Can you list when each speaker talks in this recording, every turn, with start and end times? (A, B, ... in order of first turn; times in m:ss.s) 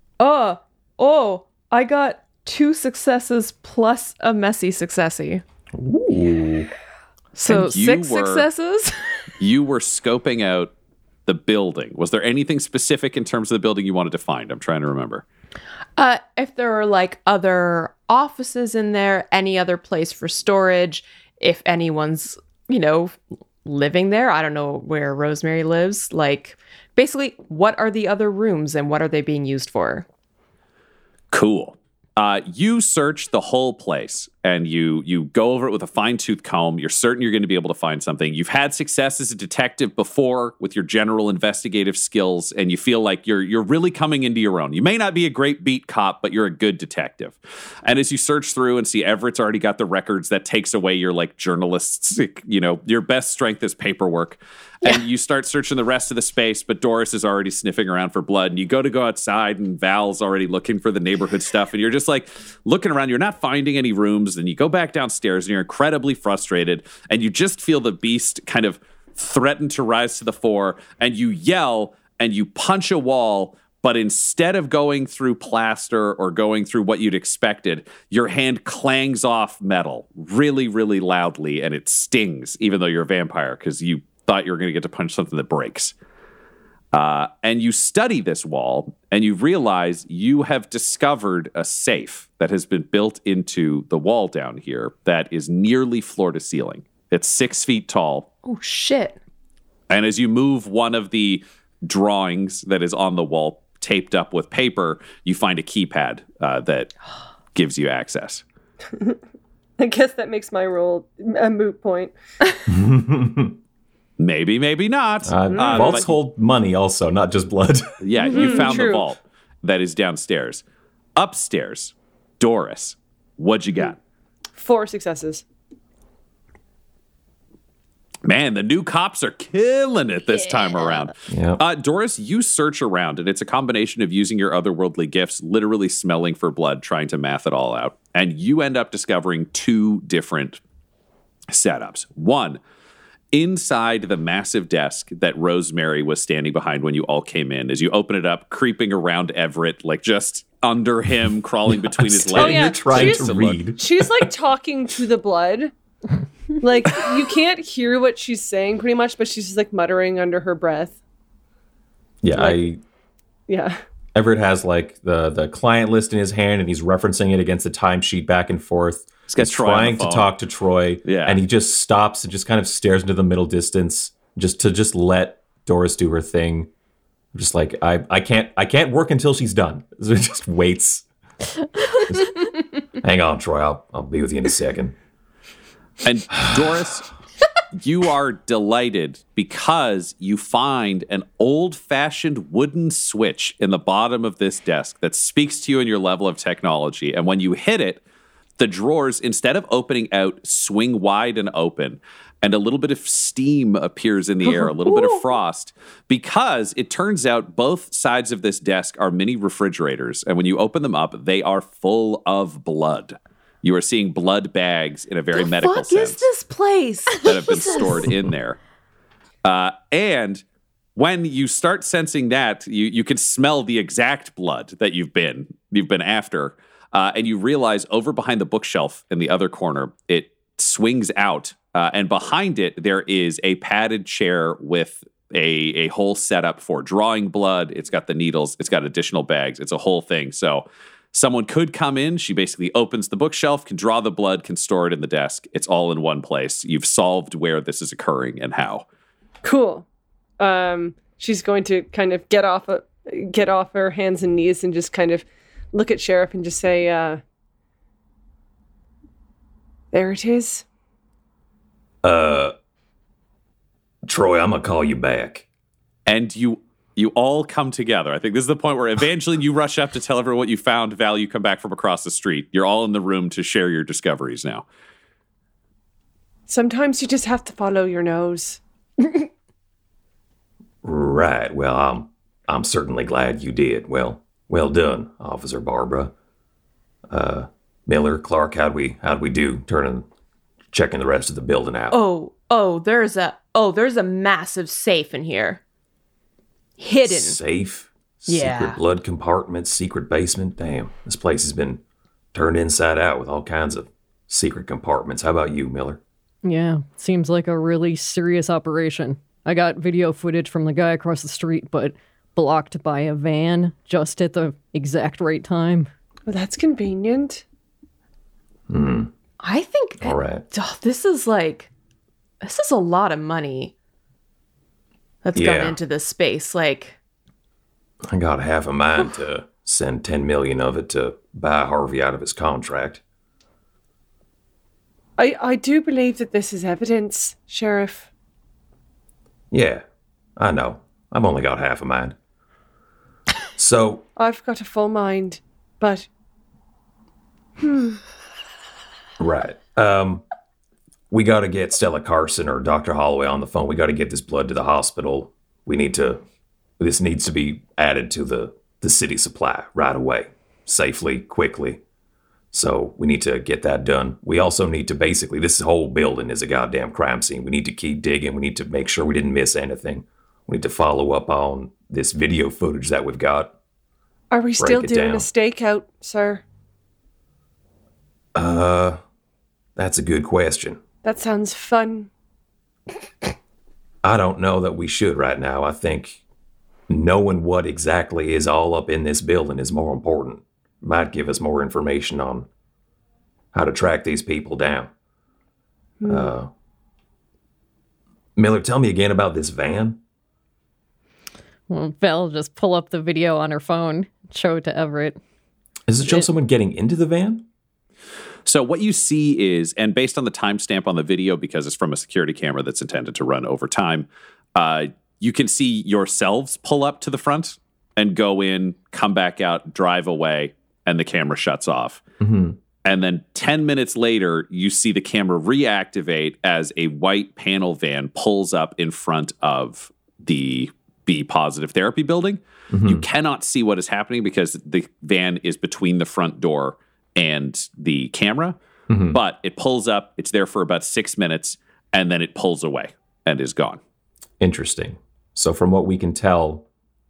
0:00.2-0:05.4 A
0:05.7-0:06.7 B
0:07.3-0:09.0 A
0:07.4-0:08.5 C
0:09.4-0:10.7 C
0:11.3-0:15.2 C
0:16.0-0:30.0 A
0:31.3-1:25.9 C
1:26.9-1:38.3 C
1:38.4-1:39.2 A
1:39.9-1:46.9 C
1:47.5-1:48.4 C
1:49.8-1:52.1 D
1:52.7-1:53.6 B
1:54.2-1:56.1 C
1:55.2-1:58.0 B
1:55.5-1:56.1 D
1:58.0-2:00.6 C
1:58.2-1:59.1 D
2:01.2-2:04.0 C
2:04.5-2:05.4 D
2:08.2-2:20.6 C
2:11.3-2:11.6 B
2:21.5-2:22.6 C
2:23.3-2:33.7 C
2:31.7-2:34.3 B
2:32.3-2:35.7 D
2:36.6-2:41.0 D
2:42.2-2:42.8 B
2:43.5-2:43.8 D
2:44.1-2:56.7 B
2:49.3-2:50.3 C
2:51.0-2:51.4 C
2:57.3-3:01.0 B
3:02.1-3:02.4 B
3:03.0-3:05.0 B
3:06.0-3:07.1 C
3:07.7-3:18.0 C
3:18.6-3:36.2 C
3:24.5-3:25.2 A
3:35.3-3:38.1 A
3:37.2-3:38.6 C
3:39.4-3:40.4 C
3:41.0-4:08.8 C
4:09.4-4:09.8 D
4:10.4-4:17.2 D
4:19.9-4:20.6 D
4:22.0-4:22.5 B
4:24.0-4:25.4 B
4:26.1-4:34.6 C
4:36.5-4:38.6 D
4:40.8-4:46.1 B
4:47.1-4:50.0 B
4:50.7-4:52.0 B
4:51.9-4:55.6 A
4:56.8-4:57.4 A
4:57.0-5:01.8 B
4:58.3-4:58.8 A
5:02.3-5:06.0 B
5:06.4-5:15.9 E
5:16.3-5:17.4 D
5:18.7-5:19.1 B
5:19.4-5:21.7 A
5:20.0-5:20.4 B
5:22.4-5:23.7 A
5:25.2-5:27.0 A
5:25.3-5:25.8 B
5:28.1-5:33.0 B
5:35.2-5:38.1 D
5:39.5-5:39.8 B
5:40.4-5:42.2 B
5:43.6-5:44.0 B
5:44.2-5:46.1 D
5:47.6-5:48.0 D
5:49.2-5:50.2 B
5:51.1-5:56.2 B
5:56.8-6:01.8 B
6:02.5-6:13.5 B
6:14.3-6:16.4 D
6:14.6-6:15.3 B
6:18.3-6:19.0 B
6:19.8-6:20.8 B
6:21.0-6:22.1 D
6:24.0-6:26.2 B
6:26.9-6:32.5 B
6:33.5-6:34.9 B
6:36.0-6:36.3 D
6:36.0-6:36.5 B
6:38.4-6:40.0 B
6:41.7-6:45.2 E
6:45.9-6:47.4 B
6:48.4-7:02.0 C
7:02.2-7:02.6 B
7:02.8-7:18.6 C
7:12.7-7:13.0 B
7:18.9-7:19.2 B
7:19.1-7:23.8 C
7:24.4-7:26.6 B